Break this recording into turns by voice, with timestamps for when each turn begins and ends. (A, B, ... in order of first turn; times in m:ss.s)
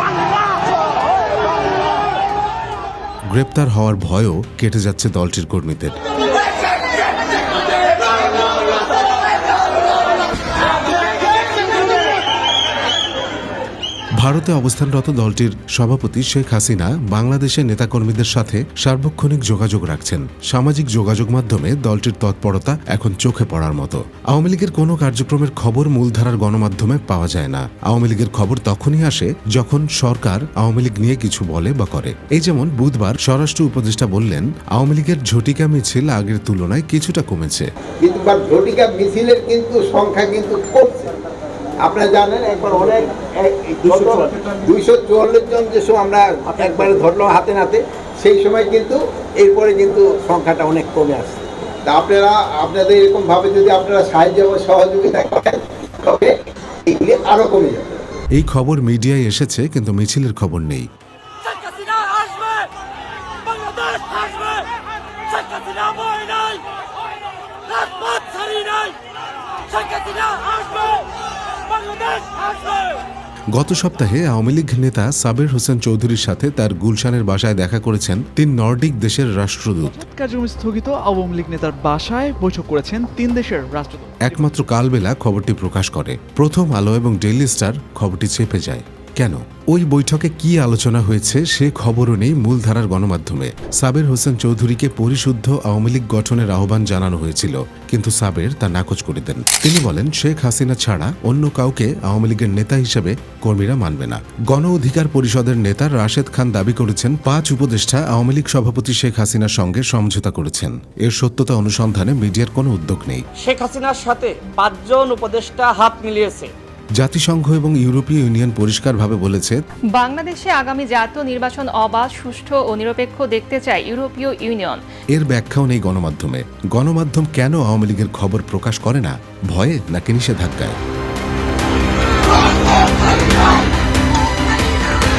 0:03.3-0:06.0 A
0:14.2-0:37.6 A
0:38.0-0:41.1 B
0:41.8-0:56.4 B
0:56.9-0:57.9 B
0:58.3-1:00.9 A
1:01.4-1:02.7 C
1:03.4-1:04.7 C
1:05.3-1:06.7 C
1:07.7-1:09.1 C
1:09.7-1:13.0 C
1:13.5-1:19.9 A
1:19.8-1:24.5 D
1:24.2-1:53.2 A
1:53.4-1:56.5 C
1:56.9-1:59.6 A
1:59.9-2:04.8 E
2:05.1-2:10.8 A